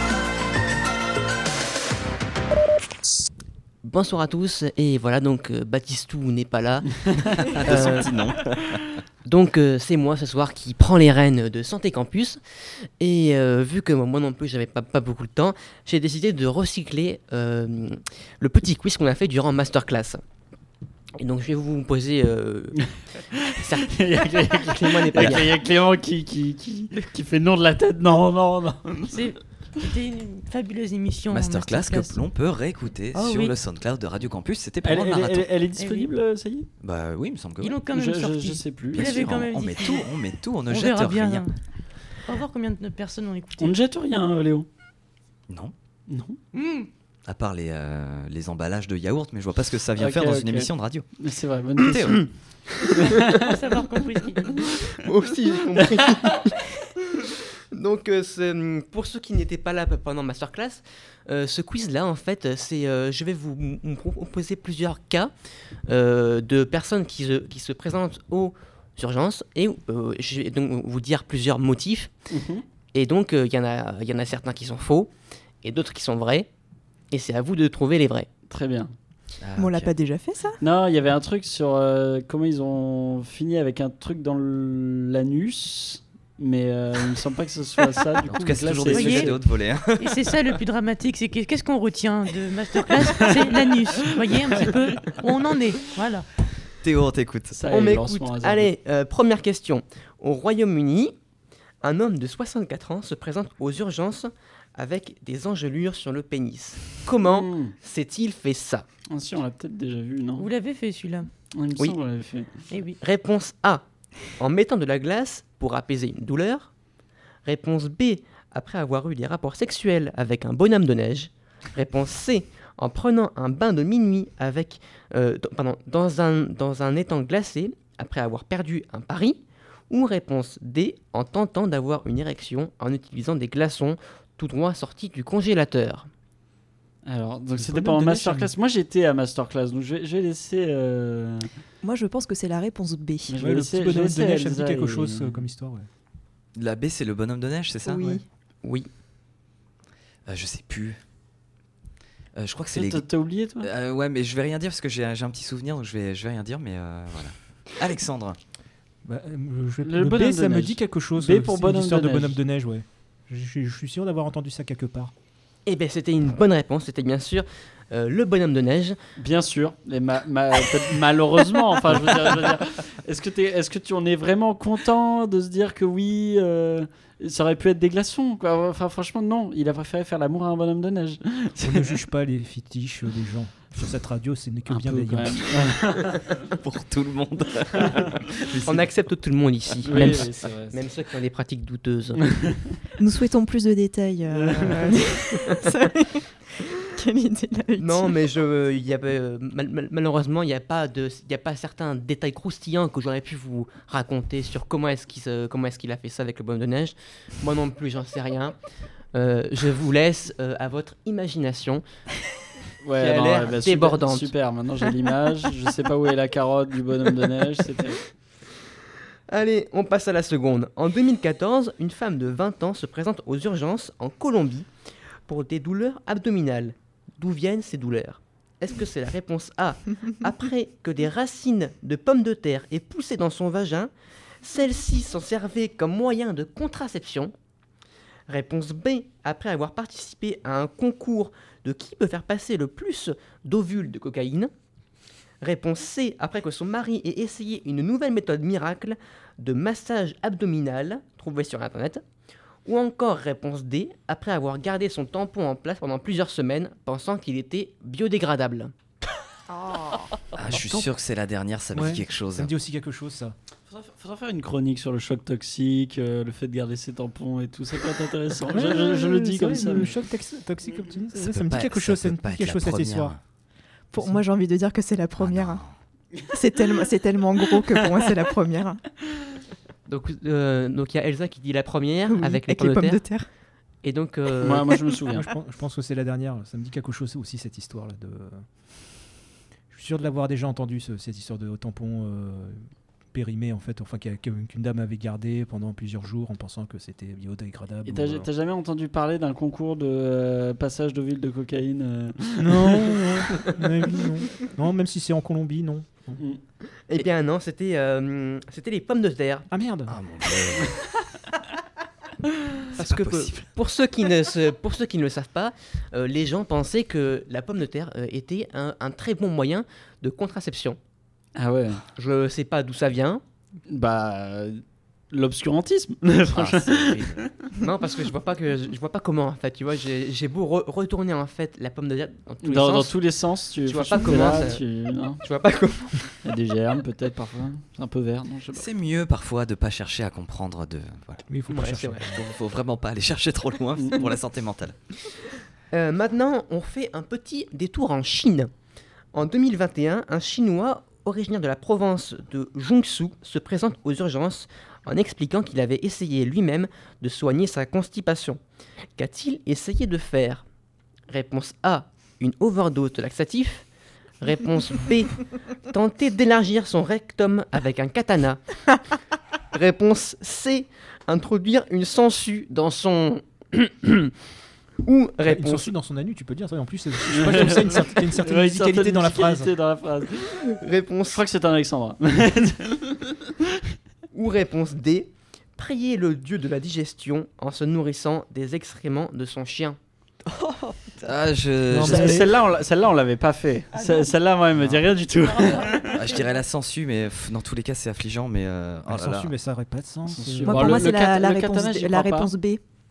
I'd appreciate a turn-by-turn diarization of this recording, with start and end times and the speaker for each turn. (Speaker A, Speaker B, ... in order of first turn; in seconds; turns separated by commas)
Speaker A: 3.9-8.2, Speaker B: 7.3-9.0, Speaker A: 9.2-12.4, Speaker A: 13.0-20.2, Speaker A: 21.2-22.8, Speaker C: 22.8-29.3, Speaker A: 23.6-25.5, Speaker D: 29.1-32.2, Speaker B: 31.3-35.5, Speaker D: 33.1-33.6, Speaker C: 34.8-36.7, Speaker D: 35.8-36.1, Speaker B: 36.8-37.8, Speaker D: 37.6-40.1, Speaker C: 37.9-39.1, Speaker B: 38.9-41.5, Speaker D: 40.7-41.5, Speaker D: 42.3-43.8, Speaker C: 43.6-44.7, Speaker C: 46.1-46.4, Speaker D: 46.5-46.9, Speaker B: 47.3-51.1, Speaker C: 50.0-52.3, Speaker B: 51.8-52.2, Speaker A: 52.8-53.4, Speaker C: 52.9-53.6, Speaker D: 53.4-54.6, Speaker A: 54.4-65.3, Speaker C: 55.8-56.4, Speaker A: 65.9-72.1, Speaker C: 72.3-72.7, Speaker A: 72.9-75.1, Speaker A: 75.6-76.5, Speaker A: 77.1-78.3, Speaker C: 78.5-78.9, Speaker B: 79.4-79.9, Speaker E: 79.6-80.6, Speaker C: 80.6-89.4, Speaker B: 88.2-90.4, Speaker D: 88.9-89.3, Speaker D: 90.0-96.3, Speaker C: 93.0-93.3, Speaker C: 94.4-95.2, Speaker B: 96.8-97.6, Speaker C: 97.5-98.7, Speaker A: 97.7-101.1, Speaker A: 101.8-108.8, Speaker C: 107.2-107.8, Speaker C: 109.1-110.5, Speaker D: 110.4-111.3, Speaker C: 111.5-112.6, Speaker D: 112.7-113.0, Speaker A: 113.0-113.8, Speaker A: 114.4-116.7, Speaker A: 117.5-129.4, Speaker A: 129.9-136.1, Speaker C: 137.1-141.5, Speaker F: 137.6-138.5, Speaker E: 141.8-143.4, Speaker C: 143.3-145.5, Speaker F: 143.4-145.9, Speaker B: 146.6-148.1, Speaker E: 147.8-148.2, Speaker B: 150.3-151.0, Speaker B: 152.3-153.1, Speaker C: 152.7-153.7, Speaker B: 153.6-158.4, Speaker F: 159.1-165.1, Speaker C: 159.8-162.4, Speaker A: 165.7-169.0, Speaker C: 169.2-182.0, Speaker F: 181.6-185.4, Speaker C: 184.7-186.4, Speaker B: 186.6-188.9, Speaker A: 188.6-192.2, Speaker C: 189.8-190.8, Speaker C: 192.2-192.5, Speaker E: 193.0-196.4, Speaker C: 194.3-195.1, Speaker E: 197.0-198.1, Speaker A: 197.8-208.6, Speaker A: 209.1-211.8, Speaker C: 212.8-218.0, Speaker A: 213.0-214.3, Speaker A: 219.3-224.7, Speaker A: 225.3-233.9, Speaker A: 234.4-237.3, Speaker A: 238.3-244.5, Speaker A: 245.4-252.0, Speaker A: 252.7-258.7, Speaker E: 259.5-260.1, Speaker B: 260.4-262.5, Speaker F: 261.7-263.4, Speaker C: 263.7-270.0, Speaker F: 268.5-273.2, Speaker B: 271.2-273.2, Speaker E: 273.9-275.6, Speaker B: 275.2-275.8, Speaker E: 276.3-278.8, Speaker C: 276.3-276.8, Speaker C: 277.4-278.1, Speaker A: 279.9-283.0, Speaker E: 282.1-283.3, Speaker A: 283.8-284.7, Speaker C: 284.4-285.3, Speaker F: 285.1-288.4, Speaker F: 289.7-292.6, Speaker F: 293.1-298.3, Speaker C: 297.8-303.5, Speaker F: 302.4-306.2, Speaker A: 306.9-309.5, Speaker F: 309.5-310.0, Speaker B: 309.9-310.7, Speaker C: 310.7-311.0, Speaker B: 312.7-313.5, Speaker A: 312.7-320.8, Speaker C: 321.4-321.8, Speaker A: 322.0-323.2, Speaker C: 323.7-327.6, Speaker B: 326.3-327.2, Speaker A: 327.6-332.9, Speaker C: 332.4-335.2, Speaker A: 333.6-334.6, Speaker A: 335.2-336.1, Speaker C: 336.2-338.7, Speaker B: 338.5-341.2, Speaker F: 341.3-342.2, Speaker A: 341.5-342.1, Speaker B: 342.1-344.8, Speaker C: 343.8-344.1, Speaker A: 345.7-348.5, Speaker A: 349.1-358.4, Speaker A: 359.0-360.4, Speaker A: 361.1-363.7, Speaker A: 364.2-368.4, Speaker A: 369.5-374.1, Speaker A: 374.9-375.7, Speaker F: 375.3-379.5, Speaker C: 377.0-380.4, Speaker A: 380.4-381.2, Speaker C: 381.1-383.5, Speaker A: 384.1-389.8, Speaker B: 391.0-392.3, Speaker F: 391.7-392.3, Speaker C: 391.8-396.0, Speaker D: 393.8-394.1, Speaker B: 394.6-394.8, Speaker D: 395.4-396.0, Speaker B: 395.9-399.3, Speaker F: 398.9-400.8, Speaker C: 400.1-402.3, Speaker E: 400.4-402.6